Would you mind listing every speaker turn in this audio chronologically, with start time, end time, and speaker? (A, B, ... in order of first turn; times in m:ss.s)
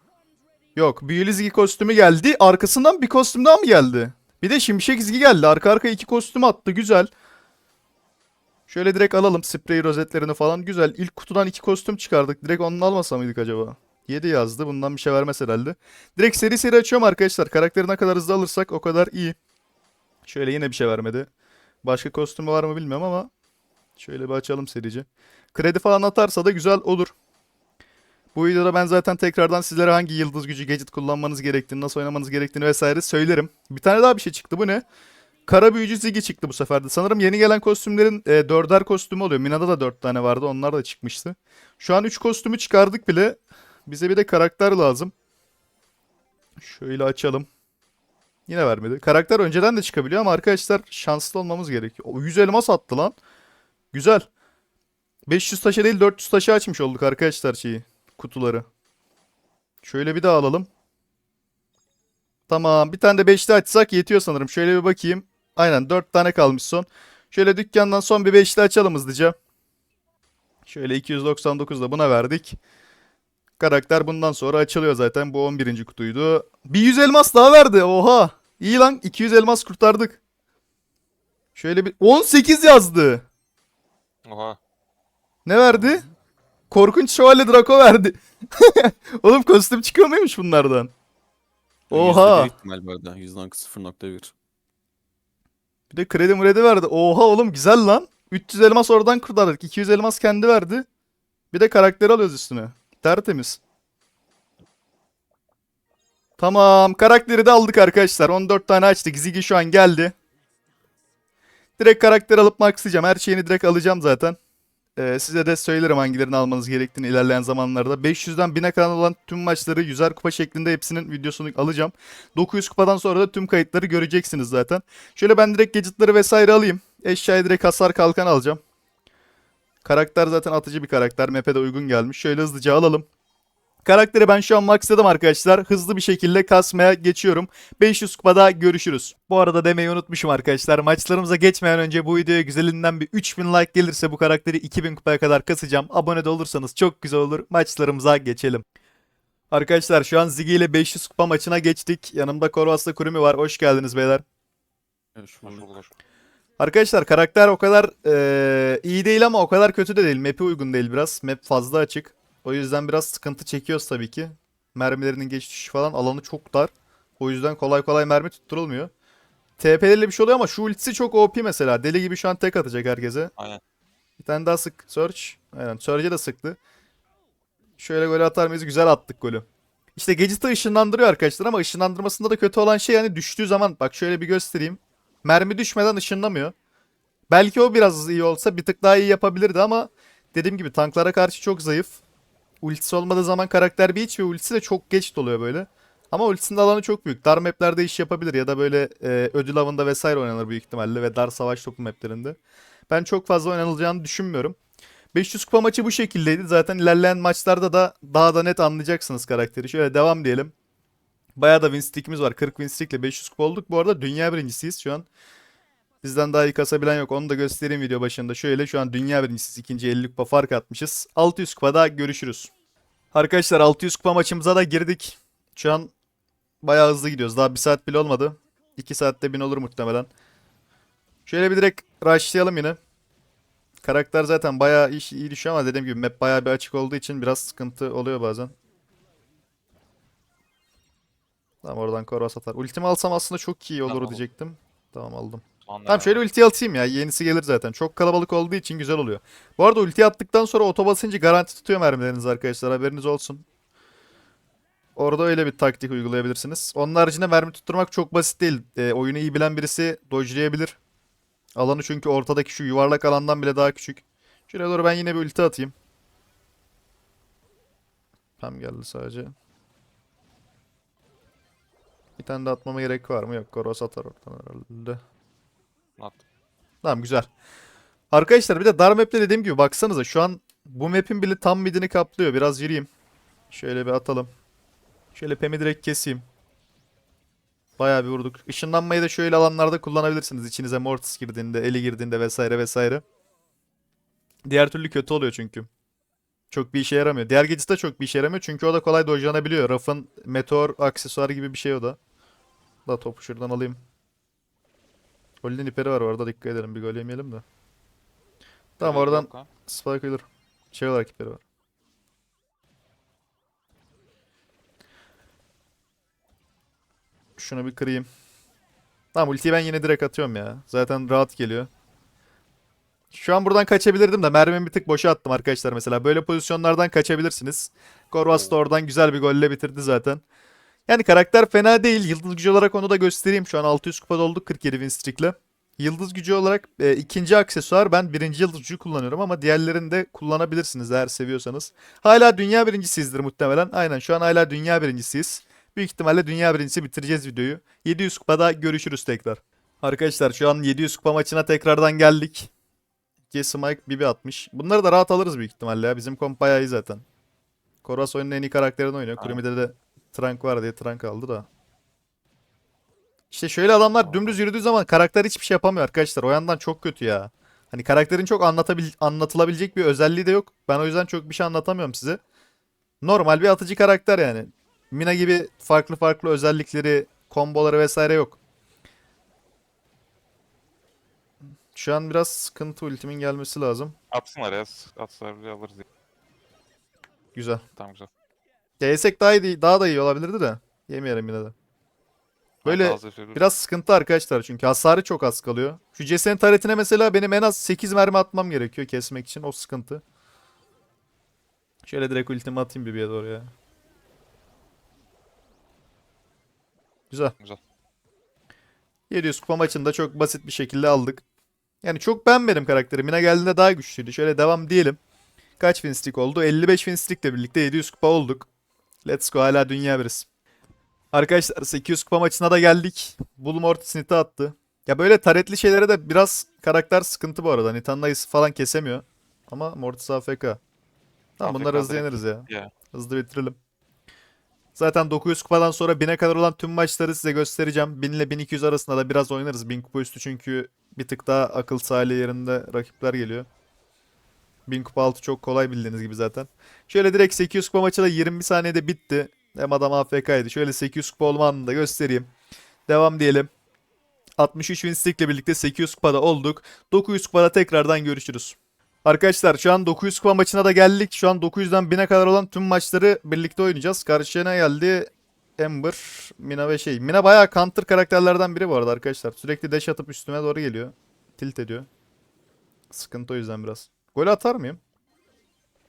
0:00.8-0:07.1 A
0:08.7-0:19.4 A
0:20.2-0:21.3 A
0:21.8-0:23.3 A
0:24.0-0:27.1 A
0:28.4-0:34.8 A
0:35.5-0:45.1 A
0:46.6-0:47.5 A
0:48.5-0:53.1 A
0:53.9-0:54.2 A
0:55.3-0:58.7 A
0:59.8-1:00.7 A
1:02.5-1:09.4 A
1:10.7-1:12.6 A
1:13.6-1:20.2 A
1:21.6-1:23.2 A
1:24.2-1:24.6 B
1:25.4-1:26.0 A
1:25.7-1:26.0 C
1:26.7-1:30.9 A
1:31.9-1:34.3 C
1:31.9-1:32.5 A
1:35.9-1:40.9 A
1:41.5-1:43.6 A
1:46.4-1:50.2 A
1:51.8-1:54.4 A
1:55.0-2:08.6 A
2:09.8-2:13.1 A
2:13.8-2:28.6 A
2:29.5-2:34.2 A
2:35.2-2:35.7 C
2:35.4-2:35.9 B
2:36.6-2:48.9 A
2:49.6-2:53.3 A
2:54.2-2:56.6 A
2:57.8-3:06.5 A
3:07.3-3:12.0 A
3:12.6-3:22.4 A
3:22.9-3:24.6 A
3:25.1-3:30.5 A
3:31.4-3:35.1 A
3:36.0-3:42.5 A
3:43.1-3:45.9 A
3:46.6-3:50.1 A
3:51.2-3:52.8 A
3:53.8-3:58.5 A
4:01.6-4:13.4 A
4:03.9-4:04.2 B
4:05.6-4:06.2 B
4:15.0-4:20.8 A
4:21.6-4:25.7 A
4:28.4-4:29.3 A
4:32.2-4:35.0 A
4:36.8-4:37.3 A
4:38.1-4:42.9 A
4:43.5-4:44.3 A
4:45.1-4:46.2 A
4:47.8-4:53.0 A
4:54.4-4:55.7 A
4:56.5-5:02.0 A
5:02.9-5:03.8 A
5:05.4-5:07.4 A
5:08.8-5:11.4 A
5:08.8-5:09.5 B
5:17.4-5:18.1 A
5:19.1-5:21.7 A
5:23.1-5:30.2 A
5:30.9-5:52.5 A
5:53.3-5:57.0 A
5:57.8-6:01.5 A
6:03.3-6:12.2 A
6:13.0-6:18.4 A
6:21.8-6:23.9 A
6:24.1-6:25.8 B
6:27.3-6:27.6 A
6:27.8-6:28.1 B
6:28.8-6:31.5 A
6:32.6-6:33.4 B
6:32.6-6:40.0 A
6:41.9-6:43.5 A
6:49.1-6:51.2 A
6:51.8-6:55.0 A
6:55.6-6:58.5 A
6:59.0-7:00.2 A
7:01.1-7:10.6 A
7:11.4-7:13.6 A
7:11.4-7:12.7 B
7:14.8-7:23.5 A
7:24.7-7:32.3 A
7:32.9-7:33.5 A
7:34.4-7:51.9 A
7:52.9-7:54.8 A